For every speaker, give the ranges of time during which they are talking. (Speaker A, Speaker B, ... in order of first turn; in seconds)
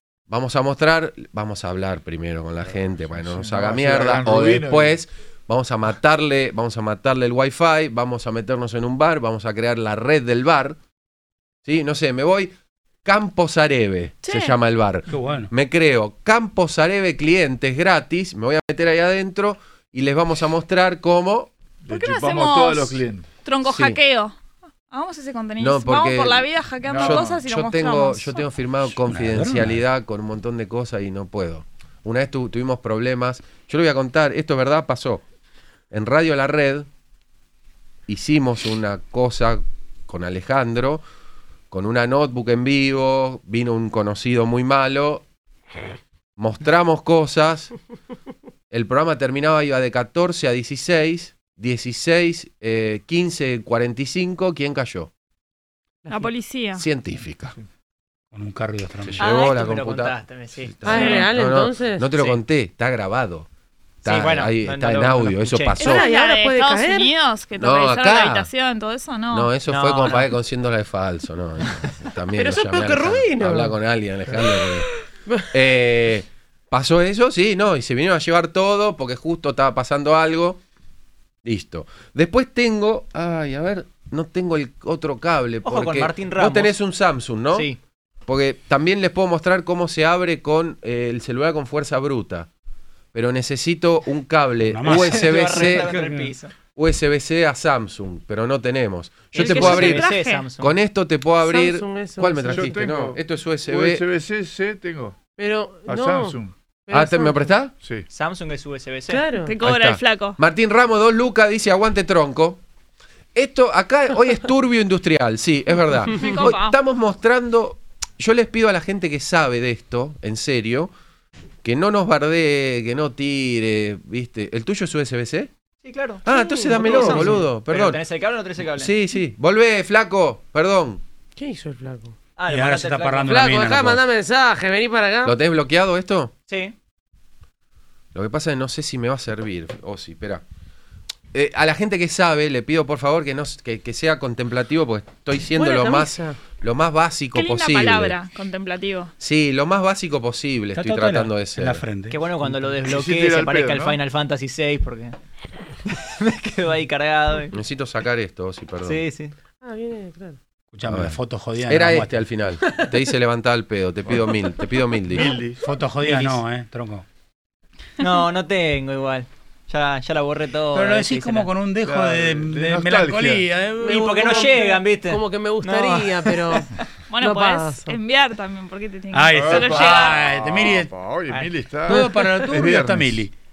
Speaker A: 0.3-10.8, 11.7-12.5, 13.1-21.5, 23.7-24.0, 25.6-35.2, 35.9-36.9, 38.1-41.0, 41.7-45.2, 46.4-47.7, 48.7-55.1, 56.8-57.5, 59.0-63.5, 64.0-66.1, 67.6-68.5, 69.3-74.9, 75.5-80.6, 81.4-87.7, 88.3-92.5, 93.1-95.9, 96.8-104.0, 106.9-107.7, 109.6-112.6, 113.3-120.9, 121.6-125.5, 126.2-128.0, 128.8-131.0, 135.2-136.3, 138.1-140.4, 141.3-148.2, 149.2-151.8, 157.5-159.0, 160.9-165.3
Speaker B: 3.1-5.0, 21.9-23.3, 26.9-27.4, 102.5-105.2, 105.9-106.5, 107.8-108.1, 152.8-154.0, 165.1-165.6, 171.8-173.5, 179.3-183.2
Speaker C: 14.2-14.6, 21.9-24.4, 24.9-28.5, 56.1-56.9, 60.9-61.3, 65.8-69.5, 99.3-100.5, 109.4-110.4, 116.1-116.8, 147.3-149.1, 177.1-180.3
Speaker D: 15.1-15.5, 29.0-29.8, 58.3-59.3, 94.7-96.3, 132.5-134.0, 150.8-152.7, 160.7-162.2, 165.6-167.1, 170.7-174.6, 179.1-180.9, 181.9-183.3
Speaker E: 59.2-61.2, 64.0-65.8, 69.7-70.3, 85.6-86.7, 87.5-87.8, 94.9-96.5, 99.3-100.7, 108.1-109.2, 125.8-128.9, 132.4-133.4, 136.5-136.8, 152.1-155.2, 155.9-157.6, 158.8-159.3, 166.0-166.4, 168.0-171.5, 173.8-176.6
Speaker F: 60.8-62.1, 65.8-67.1, 72.4-73.8, 101.4-102.8, 105.4-107.5, 109.1-109.6, 126.7-127.4, 131.4-132.2, 133.3-135.4, 145.6-146.4, 159.6-160.4, 173.8-178.0